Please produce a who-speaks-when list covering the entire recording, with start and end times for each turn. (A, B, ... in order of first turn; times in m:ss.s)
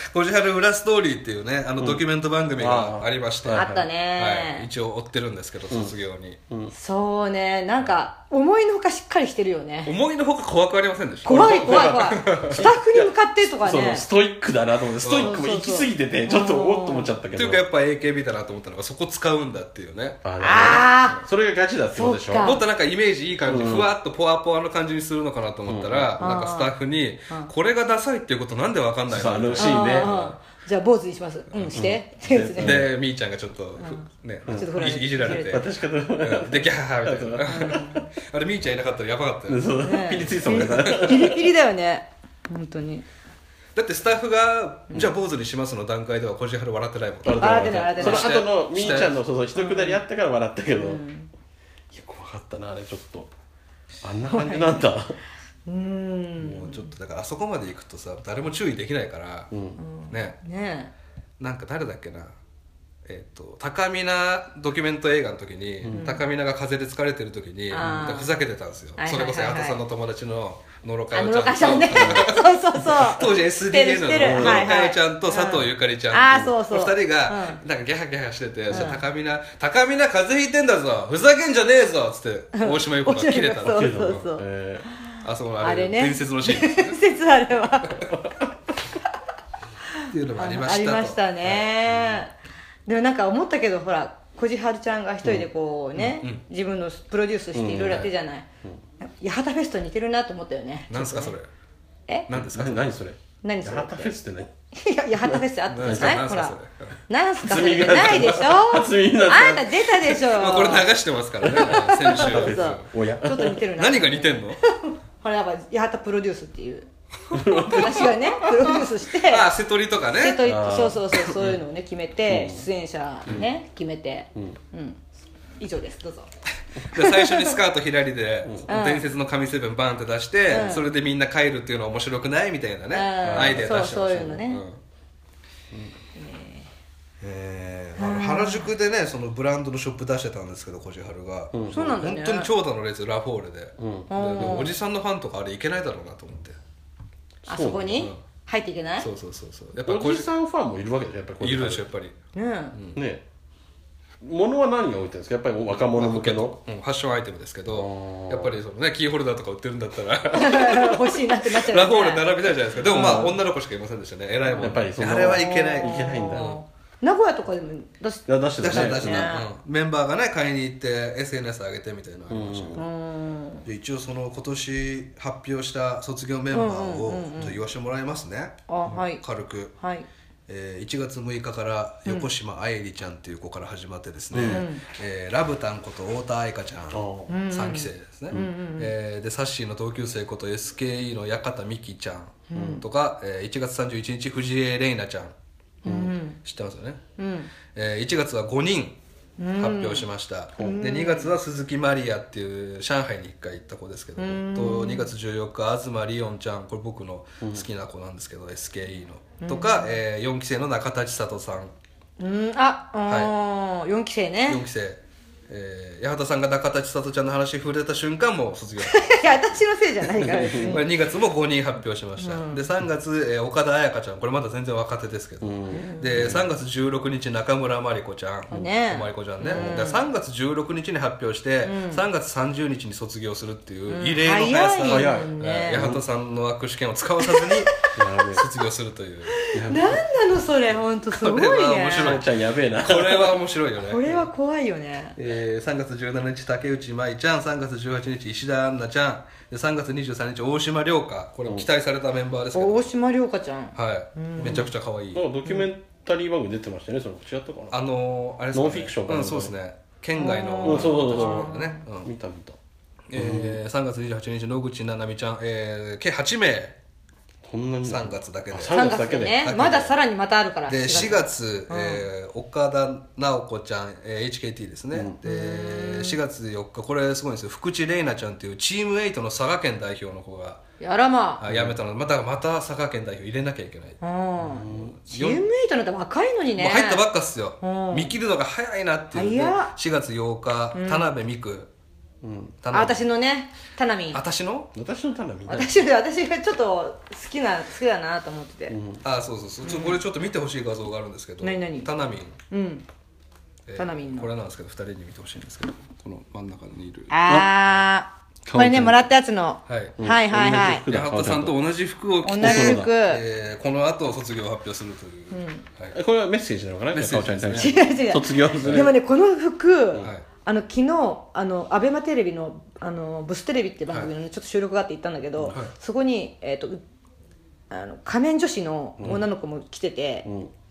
0:00.1-0:06.4 A
0:02.6-0:03.9 B
0:03.5-0:04.7 C
0:06.7-0:09.9 C
0:09.8-0:12.6 A
0:11.2-0:13.1 B
0:11.2-0:14.1 C
0:13.6-0:17.6 B
0:15.0-0:15.4 A
0:15.2-0:17.1 C
0:17.3-0:20.2 A
0:20.2-0:22.6 B
0:20.4-0:21.2 C
0:21.9-0:22.6 C
0:22.4-0:30.4 A
0:23.4-0:23.9 B
0:25.7-0:26.3 B
0:26.2-0:26.8 C
0:29.1-0:30.2 B
0:29.6-0:32.8 C
0:31.5-0:31.8 A
0:31.7-0:32.9 B
0:32.6-0:35.7 A
0:33.8-0:35.6 C
0:34.4-0:37.9 B
0:36.2-0:41.3 A
0:37.4-0:38.1 C
0:39.5-0:41.4 B
0:39.8-0:43.0 C
0:43.8-0:49.2 A
0:47.2-0:51.0 B
0:47.4-0:50.0 C
0:50.7-0:51.3 C
0:51.9-0:53.3 B
0:54.0-0:55.2 B
0:54.3-0:54.9 C
0:55.7-0:56.9 C
0:56.4-0:59.5 A
0:59.5-0:59.8 B
0:59.8-1:00.9 C
1:00.1-1:00.4 A
1:01.4-1:02.3 A
1:03.0-1:24.2 A
1:05.8-1:06.1 B
1:05.9-1:06.2 C
1:07.7-1:08.4 C
1:09.0-1:09.8 C
1:11.1-1:17.6 C
1:14.2-1:14.7 B
1:18.7-1:19.0 C
1:22.5-1:24.4 C
1:23.6-1:24.8 B
1:24.9-1:28.1 C
1:25.2-1:27.0 A
1:29.9-1:32.3 C
1:30.1-1:32.2 A
1:32.8-1:38.5 C
1:36.0-1:36.4 A
1:37.5-1:38.1 B
1:39.0-1:41.3 C
1:40.9-1:41.5 A
1:42.3-1:42.8 A
1:42.3-1:44.5 B
1:43.4-1:44.1 C
1:44.7-1:46.6 C
1:45.2-1:46.2 B
1:45.7-1:47.0 A
1:47.1-1:50.9 C
1:47.4-1:50.2 B
1:50.3-1:52.8 A
1:51.4-1:53.6 B
1:51.4-1:56.9 C
1:53.7-1:54.6 A
1:57.3-1:58.2 B
1:57.5-1:59.5 C
1:58.7-2:00.4 A
2:00.2-2:05.0 C
2:00.4-2:01.5 B
2:02.3-2:02.7 B
2:05.6-2:06.3 C
2:06.8-2:14.8 A
2:06.9-2:07.6 C
2:08.7-2:09.1 C
2:10.5-2:10.8 C
2:12.9-2:14.6 C
2:13.2-2:13.9 B
2:16.2-2:16.7 C
2:17.2-2:26.6 A
2:18.0-2:18.7 C
2:21.5-2:22.0 B
2:21.7-2:22.5 C
2:23.8-2:24.6 B
2:24.1-2:24.7 C
2:27.4-2:28.1 B
2:27.5-2:29.1 C
2:29.0-2:30.3 A
2:29.8-2:31.8 B
2:31.4-2:32.2 A
2:32.3-2:32.7 C
2:32.7-2:33.0 A
2:32.9-2:33.2 B
2:34.2-2:36.6 B
2:35.9-2:46.6 A
2:37.7-2:38.6 B
2:40.3-2:42.3 C
2:42.9-2:43.4 B
2:42.9-2:43.3 C
2:44.5-2:49.5 C
2:44.6-2:46.6 B
2:48.3-2:49.3 B
2:48.6-2:52.8 A
2:52.3-2:52.8 B
2:52.8-2:53.6 C
2:53.7-2:59.7 A
2:56.5-2:57.6 C
2:58.7-2:59.2 C
2:59.8-3:00.1 C
3:00.5-3:15.3 A
3:04.3-3:04.6 B
3:04.4-3:04.8 C
3:06.9-3:07.3 B
3:07.3-3:08.9 C
3:12.5-3:12.8 C
3:12.6-3:12.8 B
3:15.8-3:16.4 C
3:15.8-3:16.1 B
3:16.4-3:17.0 A
3:17.2-3:17.5 C
3:17.7-3:19.0 A
3:19.4-3:20.1 C
3:19.6-3:31.7 A
3:20.6-3:21.3 C
3:24.2-3:25.1 C
3:27.4-3:27.7 B
3:29.4-3:29.9 C
3:32.2-3:34.6 C
3:33.1-3:33.3 A
3:34.5-3:39.4 A
3:38.9-3:40.9 C
3:40.2-3:40.8 B
3:40.4-3:59.4 A
3:42.2-3:42.7 C
3:45.4-3:46.5 B
3:45.7-3:46.3 C
3:48.5-3:50.0 C
3:49.4-3:49.8 B
3:51.6-3:52.0 C
3:53.9-3:55.8 C
3:54.8-3:56.0 B
3:57.2-3:57.7 C
3:57.9-3:58.4 B
3:59.3-4:02.2 C
3:59.5-4:00.0 B
4:01.1-4:04.2 A
4:01.9-4:03.4 B
4:03.8-4:05.2 C
4:05.2-4:12.9 A
4:12.5-4:14.7 C
4:13.7-4:15.3 A
4:14.4-4:17.8 B
4:17.7-4:22.1 A
4:18.5-4:19.5 B
4:20.2-4:21.8 C
4:20.6-4:22.6 B
4:23.1-4:26.8 A
4:23.1-4:23.6 B
4:27.4-4:29.6 B
4:27.8-4:28.8 A
4:28.7-4:32.0 C
4:29.4-4:29.9 A
4:30.7-4:40.6 A
4:35.2-4:36.2 C
4:40.8-4:41.4 C
4:41.4-4:44.0 A
4:41.5-4:41.8 B
4:44.0-4:47.0 C
4:44.4-4:45.0 B
4:44.6-4:45.4 A
4:46.6-4:51.7 A
4:47.6-4:48.1 C
4:49.1-4:49.7 C
4:50.7-4:51.1 C
4:52.2-4:52.6 B
4:52.6-4:53.0 A
4:52.7-4:54.2 C
4:54.1-4:54.7 A
4:54.7-4:55.9 B
4:55.5-4:58.8 C
4:58.7-4:59.0 B
4:59.0-5:02.4 A
4:59.6-5:00.0 C
5:01.4-5:01.9 C
5:02.5-5:02.8 C
5:03.7-5:07.1 A
5:03.8-5:04.3 C
5:07.1-5:10.8 C
5:07.3-5:07.5 B
5:08.4-5:09.0 B
5:09.7-5:10.0 A
5:10.0-5:11.6 B
5:10.9-5:16.0 A
5:12.2-5:13.2 C
5:12.4-5:12.9 B
5:15.3-5:15.6 C
5:15.9-5:18.9 B
5:16.9-5:17.9 A
5:17.6-5:26.8 C
5:18.6-5:18.9 A
5:20.0-5:20.2 A
5:27.7-5:30.3 C
5:29.0-5:29.2 B
5:30.2-5:30.5 B